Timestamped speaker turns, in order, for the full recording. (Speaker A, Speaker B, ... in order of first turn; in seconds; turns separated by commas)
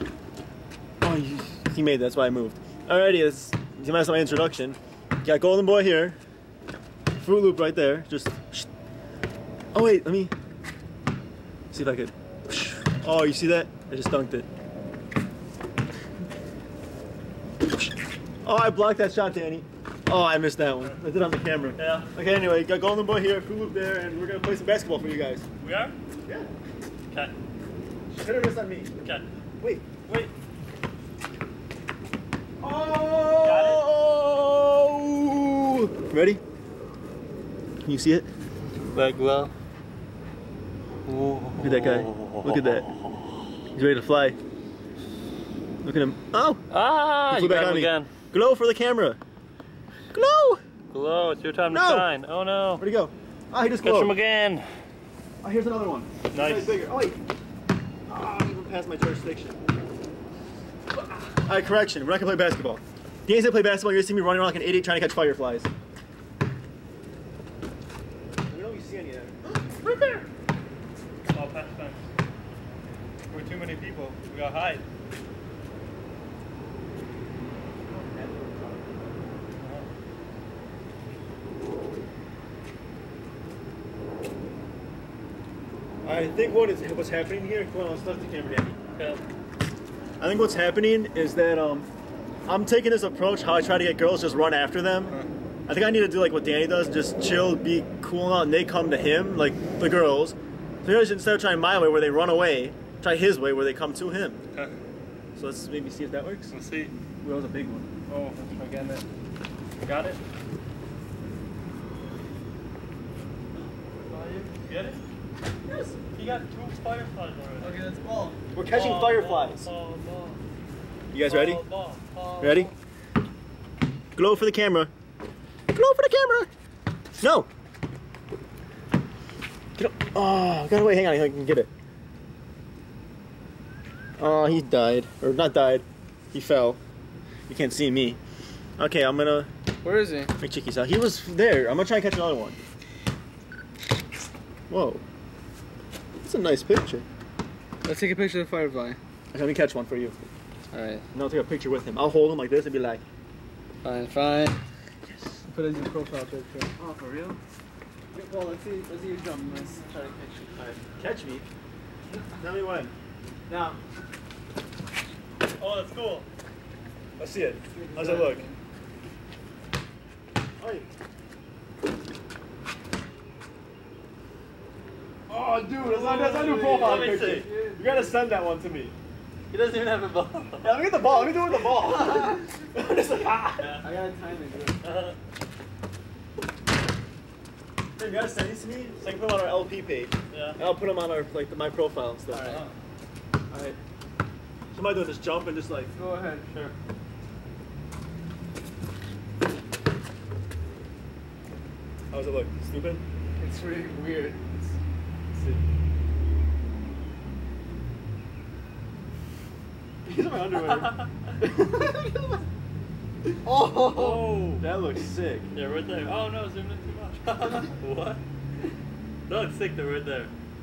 Speaker A: 1.0-6.2, Speaker A: 7.2-8.7, Speaker A: 9.7-10.3, Speaker A: 11.7-14.5, Speaker A: 18.4-25.4, Speaker B: 21.8-22.1, Speaker B: 25.6-25.9, Speaker A: 28.1-28.9, Speaker A: 29.6-29.8, Speaker B: 30.1-30.3, Speaker A: 32.6-36.4, Speaker B: 33.4-33.9, Speaker A: 37.8-38.2, Speaker B: 38.9-39.5, Speaker B: 41.0-43.2, Speaker A: 41.6-42.9, Speaker A: 43.7-44.4, Speaker A: 45.8-46.6, Speaker B: 46.7-48.1, Speaker A: 47.3-49.2, Speaker A: 50.1-50.6, Speaker B: 50.9-52.8, Speaker A: 51.7-52.1, Speaker A: 52.8-54.1, Speaker B: 53.8-54.7, Speaker A: 55.4-57.2, Speaker B: 56.3-56.8, Speaker A: 58.1-59.6, Speaker A: 61.4-65.7, Speaker A: 68.5-70.2, Speaker B: 71.3-72.0, Speaker B: 73.3-74.8, Speaker A: 77.8-79.3, Speaker B: 79.6-79.9, Speaker A: 86.0-88.8, Speaker B: 88.9-89.2, Speaker A: 90.2-91.9, Speaker A: 92.5-95.2, Speaker A: 95.7-104.4, Speaker A: 105.3-106.5, Speaker B: 106.5-107.0, Speaker A: 107.2-107.9, Speaker B: 108.1-109.0, Speaker B: 109.8-110.2, Speaker B: 114.1-115.0, Speaker B: 116.1-117.8, Speaker C: 117.6-118.4, Speaker A: 118.5-119.7, Speaker B: 118.7-120.4, Speaker A: 121.1-121.6, Speaker B: 121.2-122.6, Speaker A: 122.4-122.7, Speaker A: 124.2-124.9, Speaker A: 125.7-126.5, Speaker A: 127.2-127.5, Speaker A: 129.8-131.7, Speaker A: 134.2-136.8, Speaker A: 137.5-138.2, Speaker A: 138.8-139.5, Speaker C: 139.8-140.3, Speaker A: 140.4-142.6, Speaker A: 144.7-145.0, Speaker A: 146.2-147.0, Speaker C: 147.8-149.0, Speaker A: 149.3-150.2, Speaker C: 150.7-151.0, Speaker A: 151.1-153.0, Speaker C: 153.8-154.6, Speaker A: 155.1-155.4, Speaker C: 155.5-156.8, Speaker A: 156.8-157.4, Speaker C: 158.1-160.6, Speaker A: 160.6-161.4, Speaker A: 162.4-162.9, Speaker A: 163.5-163.8, Speaker B: 165.6-166.2, Speaker A: 167.2-168.4, Speaker C: 167.7-168.6, Speaker A: 170.6-170.8, Speaker A: 175.3-178.9, Speaker C: 175.7-178.2, Speaker B: 176.2-177.5, Speaker B: 179.5-180.8, Speaker A: 180.6-183.7, Speaker B: 183.6-183.8, Speaker C: 183.8-184.8, Speaker B: 184.8-185.2, Speaker A: 188.0-192.6, Speaker B: 190.3-190.6, Speaker C: 192.3-192.6, Speaker B: 192.4-192.7, Speaker A: 193.5-193.8, Speaker A: 194.7-195.9, Speaker C: 195.9-196.4, Speaker B: 196.5-196.7, Speaker A: 202.1-203.0, Speaker C: 203.4-204.7, Speaker A: 205.3-205.6, Speaker A: 210.0-212.4, Speaker B: 210.6-211.3, Speaker C: 213.4-214.4, Speaker B: 213.8-214.6, Speaker A: 214.6-215.5, Speaker B: 215.5-218.2, Speaker B: 219.3-220.3